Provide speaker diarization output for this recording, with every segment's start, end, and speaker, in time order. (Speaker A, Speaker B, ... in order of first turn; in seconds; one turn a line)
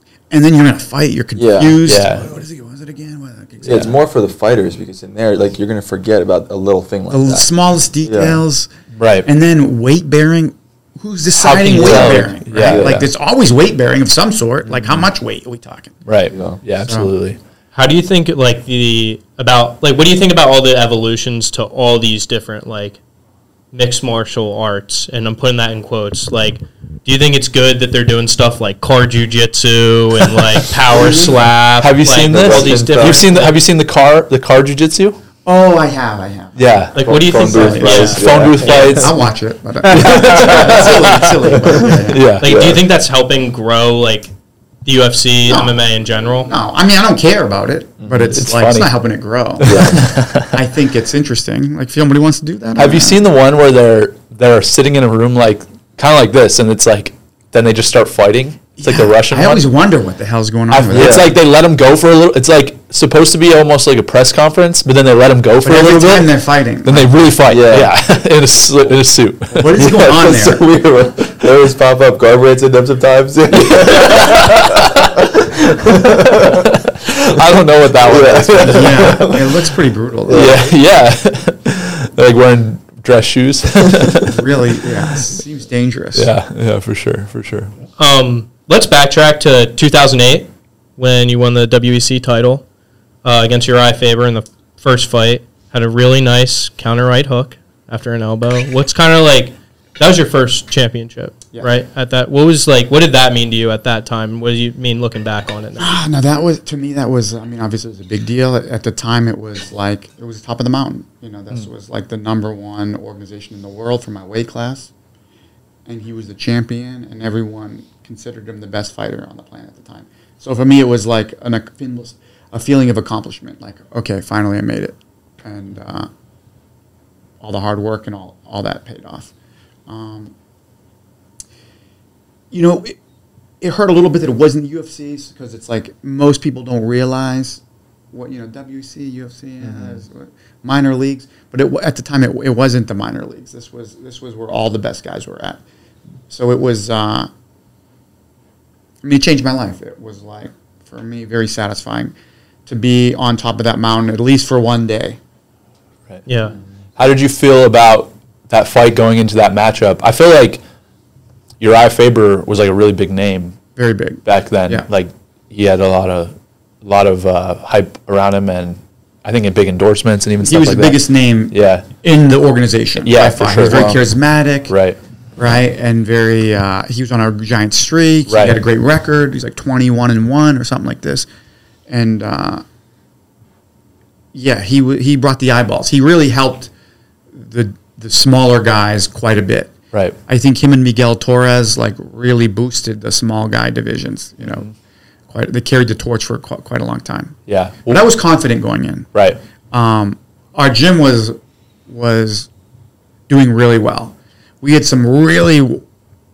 Speaker A: 0.3-4.0
Speaker B: 1.4-1.8
Speaker C: 1.8-2.3
Speaker B: 3.6-7.5
Speaker A: 7.1-8.7
Speaker B: 8.0-8.4
Speaker C: 9.0-9.3
Speaker A: 9.2-16.0
Speaker C: 11.4-13.1
Speaker B: 11.7-13.1
Speaker C: 16.1-17.4
Speaker B: 16.3-16.6
Speaker A: 16.8-17.1
Speaker D: 17.7-23.0
Speaker D: 23.7-33.5
Speaker A: 31.0-31.3
Speaker C: 31.8-35.2
Speaker B: 32.1-33.2
Speaker A: 35.5-36.8
Speaker C: 36.6-39.2
Speaker D: 36.9-38.9
Speaker B: 37.0-39.0
Speaker A: 37.4-42.3
Speaker C: 39.9-42.7
Speaker D: 42.4-44.3
Speaker B: 42.4-42.8
Speaker D: 44.9-46.5
Speaker A: 45.5-45.7
Speaker A: 46.5-53.2
Speaker B: 48.0-48.3
Speaker C: 48.2-48.9
Speaker C: 49.6-50.6
Speaker B: 49.6-50.0
Speaker C: 52.8-59.7
Speaker A: 58.8-61.4
Speaker C: 60.7-70.2
Speaker B: 60.9-61.3
Speaker A: 65.6-67.2
Speaker B: 67.5-67.9
Speaker A: 69.5-70.6
Speaker B: 69.8-76.6
Speaker C: 73.9-79.5
Speaker B: 78.0-79.5
Speaker A: 78.6-80.6
Speaker B: 80.3-80.7
Speaker C: 80.3-85.1
Speaker A: 84.2-86.3
Speaker C: 86.2-87.7
Speaker D: 88.0-92.7
Speaker D: 93.2-105.9
Speaker A: 105.8-114.9
Speaker A: 115.9-126.1
Speaker A: 127.4-129.3
Speaker A: 129.9-130.3
Speaker A: 132.5-133.0
Speaker A: 133.6-137.6
Speaker A: 138.1-145.6
Speaker A: 146.3-147.3
Speaker A: 149.0-152.1
Speaker A: 152.7-155.2
Speaker D: 156.3-156.5
Speaker C: 157.0-160.6
Speaker C: 161.6-163.6
Speaker A: 163.8-164.8
Speaker C: 164.2-166.3
Speaker C: 166.8-171.0
Speaker A: 170.4-174.8
Speaker C: 171.5-171.9
Speaker C: 173.0-174.0
Speaker B: 173.7-174.0
Speaker C: 174.7-175.0
Speaker A: 175.4-181.3
Speaker C: 178.3-178.6
Speaker A: 181.9-182.6
Speaker A: 184.3-186.7
Speaker A: 187.3-189.8
Speaker A: 190.3-194.7
Speaker A: 195.3-199.1
Speaker C: 197.5-198.0
Speaker C: 199.1-199.4
Speaker A: 199.7-202.5
Speaker A: 203.3-205.8